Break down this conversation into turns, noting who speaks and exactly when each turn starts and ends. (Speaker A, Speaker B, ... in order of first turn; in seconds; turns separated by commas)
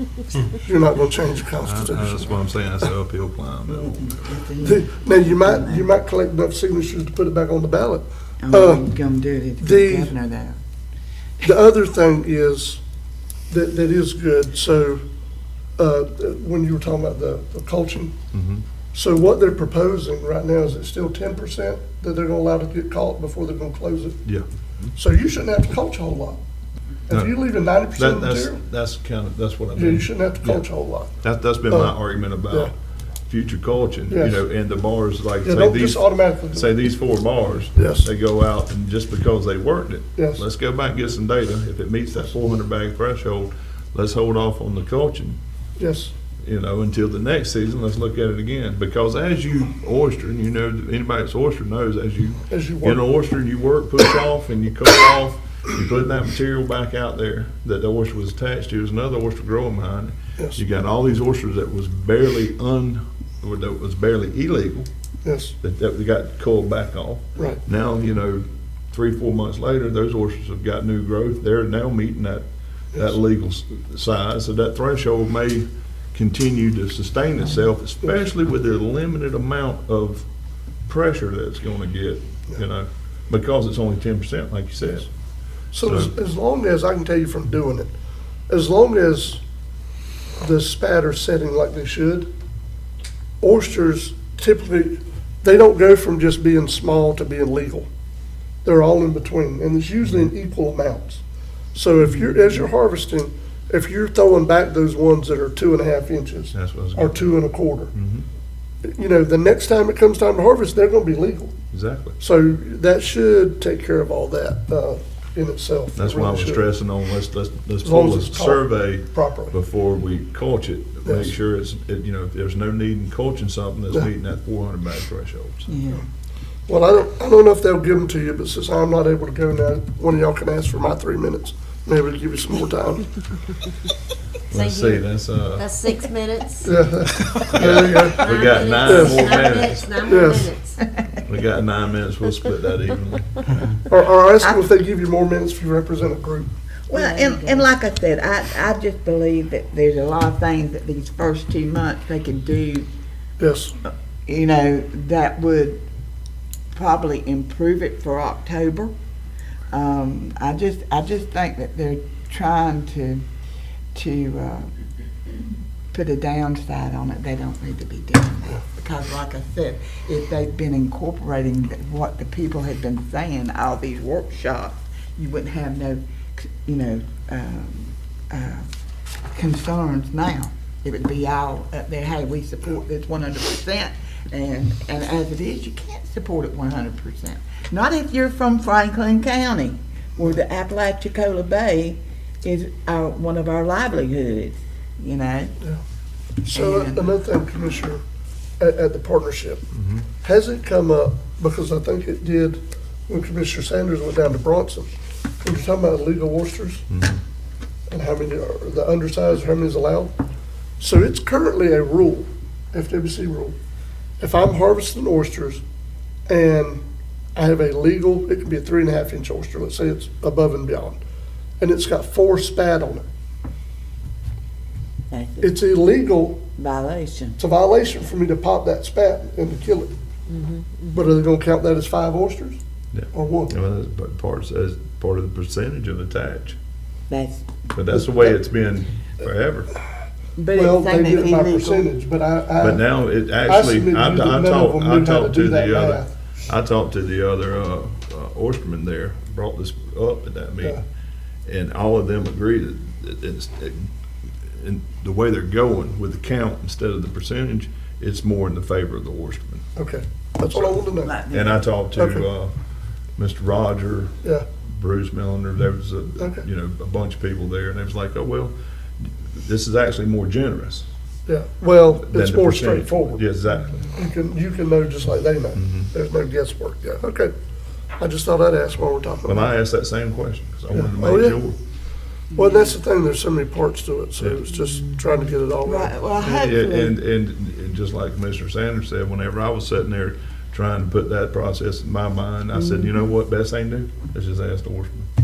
Speaker A: 0.6-2.4, Speaker B: 1.6-4.3, Speaker C: 3.7-5.9, Speaker A: 4.6-8.9, Speaker C: 8.4-10.6, Speaker A: 9.6-10.1, Speaker A: 11.4-12.8, Speaker A: 13.5-15.0, Speaker A: 15.8-18.2, Speaker B: 18.3-18.6, Speaker A: 18.9-24.2, Speaker B: 24.2-24.9, Speaker A: 24.9-26.4, Speaker A: 27.1-28.6, Speaker B: 27.1-27.4, Speaker B: 27.9-30.7, Speaker A: 29.8-31.1, Speaker B: 31.2-32.7, Speaker A: 31.7-32.0, Speaker B: 33.3-45.4, Speaker A: 34.1-34.4, Speaker A: 35.4-36.7, Speaker A: 37.8-38.1, Speaker A: 40.2-40.4, Speaker A: 45.8-46.1, Speaker B: 46.4-64.9, Speaker A: 52.5-53.0, Speaker A: 65.2-65.5, Speaker B: 65.6-80.3, Speaker B: 80.9-85.1, Speaker A: 85.7-87.9, Speaker B: 85.8-86.1, Speaker A: 88.5-89.4, Speaker A: 90.4-92.3, Speaker A: 93.4-97.9, Speaker A: 98.6-101.2, Speaker A: 101.7-107.9, Speaker B: 106.5-107.4, Speaker B: 107.9-108.3, Speaker A: 108.8-111.5, Speaker B: 111.7-112.2, Speaker A: 112.2-116.7, Speaker B: 116.0-125.7, Speaker A: 117.8-119.5, Speaker A: 121.0-121.3, Speaker C: 125.7-126.0, Speaker A: 126.7-133.1, Speaker B: 134.5-135.7, Speaker D: 134.5-136.7, Speaker A: 136.6-139.4, Speaker D: 137.3-140.9, Speaker B: 137.5-140.3, Speaker A: 140.1-140.5, Speaker B: 141.3-143.4, Speaker A: 143.9-146.5, Speaker C: 146.9-152.9, Speaker D: 146.9-147.7, Speaker A: 153.4-153.7, Speaker C: 154.3-155.8, Speaker C: 156.7-158.9, Speaker C: 159.7-163.2, Speaker C: 163.9-164.7, Speaker C: 165.9-178.7, Speaker C: 179.3-195.6, Speaker A: 196.4-198.0, Speaker C: 196.5-197.0, Speaker A: 198.6-199.7, Speaker B: 199.7-200.1, Speaker A: 200.2-206.9, Speaker B: 206.9-207.2, Speaker A: 207.9-210.2, Speaker A: 210.8-213.6, Speaker A: 214.2-215.6, Speaker A: 216.3-216.8, Speaker A: 217.3-221.0, Speaker A: 221.6-223.1, Speaker C: 225.1-225.6, Speaker A: 225.4-226.4, Speaker C: 226.6-227.4, Speaker A: 227.4-229.9, Speaker A: 230.9-232.6, Speaker B: 232.9-236.6, Speaker A: 233.1-233.5, Speaker C: 237.1-237.4, Speaker B: 237.7-239.7, Speaker A: 237.9-238.4, Speaker C: 240.4-241.9, Speaker A: 240.5-246.2, Speaker B: 242.6-250.8, Speaker B: 251.5-253.9, Speaker B: 254.5-259.6, Speaker A: 259.8-261.1, Speaker C: 260.5-261.6, Speaker B: 261.3-262.5, Speaker A: 261.9-262.3, Speaker B: 263.2-264.1, Speaker B: 264.6-270.9, Speaker A: 266.2-266.4, Speaker A: 271.3-273.2, Speaker B: 272.0-273.9, Speaker A: 273.9-277.3, Speaker B: 275.6-275.9, Speaker A: 278.0-279.5, Speaker B: 279.3-281.6, Speaker A: 280.7-281.4, Speaker A: 282.3-286.4, Speaker C: 285.6-286.9, Speaker B: 286.3-295.1